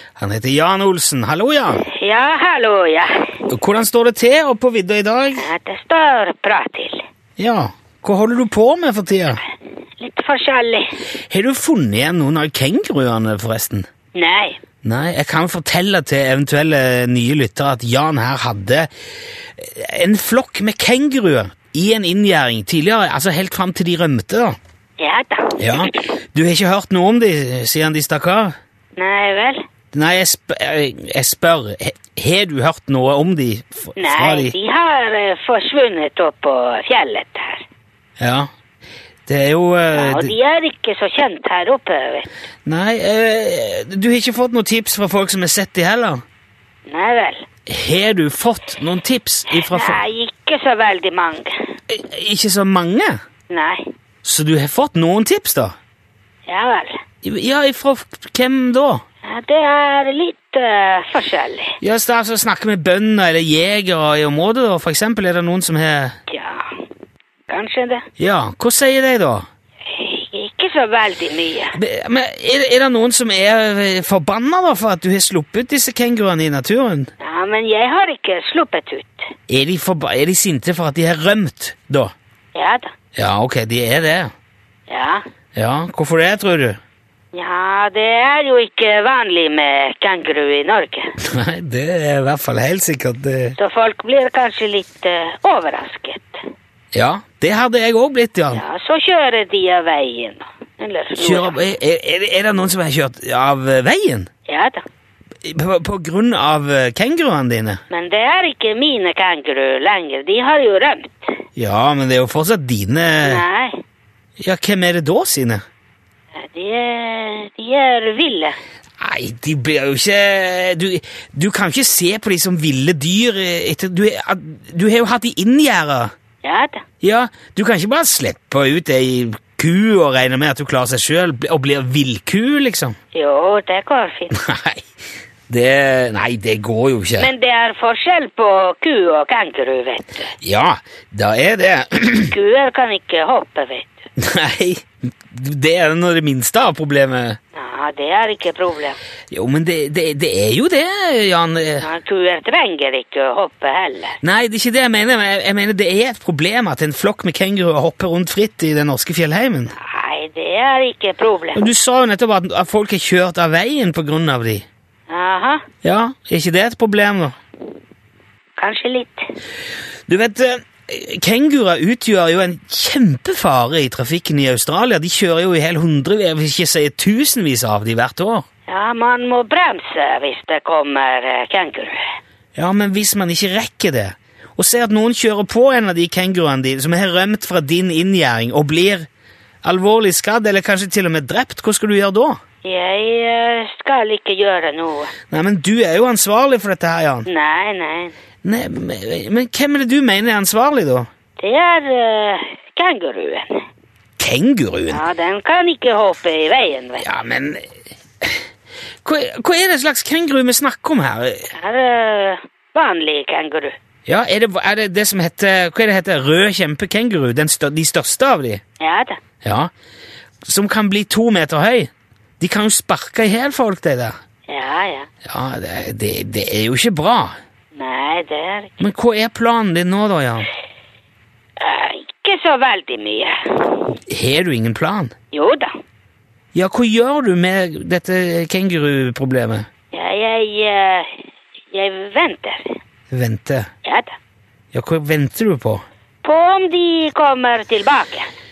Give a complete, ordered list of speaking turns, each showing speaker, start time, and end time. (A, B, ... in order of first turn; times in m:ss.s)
0:00.2-0:01.8 A
0:01.8-0:03.4 B
0:03.5-0:05.5 A
0:05.3-0:07.0 B
0:07.4-0:09.4 A
0:10.0-0:11.0 B
0:11.3-0:13.9 A
0:14.1-0:14.6 B
0:14.8-0:18.9 A
0:19.6-0:24.6 A
0:25.0-0:25.9 B
0:25.6-0:28.5 A
0:29.0-0:29.6 B
0:29.9-0:34.5 A
0:34.0-0:37.6 B
0:38.2-0:38.5 A
0:39.3-0:40.3 A
0:39.9-0:42.3 B
0:42.6-0:46.2 A
0:46.9-0:47.4 B
0:47.7-0:50.0 A
0:49.5-0:51.7 B
0:51.9-0:53.2 A
0:53.5-0:53.9 B
0:54.2-0:55.8 A
0:56.4-0:57.0 B
0:57.2-0:59.0 A
0:59.2-1:01.8 B
1:01.8-1:06.2 A
1:06.3-1:06.9 B
1:07.5-1:08.1 B
1:08.2-1:09.4 A
1:09.9-1:11.8 B
1:11.7-1:17.1 A
1:17.2-1:19.3 B
1:19.5-1:22.1 A
1:22.5-1:22.9 B
1:23.1-1:24.3 A
1:24.9-1:25.2 B
1:25.5-1:26.8 A
1:27.3-1:31.1 B
1:31.2-1:33.6 A
1:33.6-1:36.4 B
1:36.9-1:38.6 A
1:38.5-1:41.6 B
1:41.1-1:44.3 A
1:44.5-1:44.8 B
1:45.4-1:47.8 A
1:47.9-1:51.3 B
1:51.6-1:53.4 A
1:53.2-1:53.8 B
1:54.4-1:55.6 A
1:56.3-1:58.6 B
1:59.0-2:06.1 A
2:06.4-2:06.8 B
2:07.0-2:13.0 A
2:13.1-2:14.3 B
2:14.3-2:14.8 A
2:15.5-2:17.3 A
2:17.2-2:20.3 B
2:20.4-2:22.3 A
2:22.3-2:23.9 B
2:24.2-2:27.4 A
2:27.5-2:29.0 B
2:29.3-2:31.9 A
2:31.8-2:34.2 B
2:34.2-2:39.7 A
2:39.8-2:41.6 B
2:41.5-2:44.6 A
2:45.1-2:45.7 B
2:45.8-2:47.4 A
2:48.6-2:49.3 B
2:50.1-2:58.4 A
2:58.7-3:02.0 B
3:02.5-3:09.1 A
3:09.6-3:12.4 A
3:12.6-3:15.1 B
3:15.3-3:17.3 A
3:17.2-3:18.1 B
3:18.4-3:21.1 A
3:21.4-3:23.6 B
3:24.2-3:25.0 A
3:24.9-3:27.1 B
3:27.0-3:27.7 A
3:29.0-3:31.5 A
3:31.5-3:33.8 B
3:34.0-3:38.6 A
3:38.8-3:39.2 B
3:39.4-3:39.7 A
3:40.4-3:44.2 A
3:44.5-3:45.1 B
3:45.2-3:47.4 A
3:47.7-3:48.7 B
3:48.8-3:50.5 A
3:51.6-3:53.9 B
3:54.1-3:55.1 A
3:55.3-3:55.7 B
3:56.5-3:59.7 A
3:59.9-4:02.8 B
4:03.1-4:03.7 A
4:03.8-4:04.1 B
4:04.7-4:05.8 A
4:06.2-4:08.3 B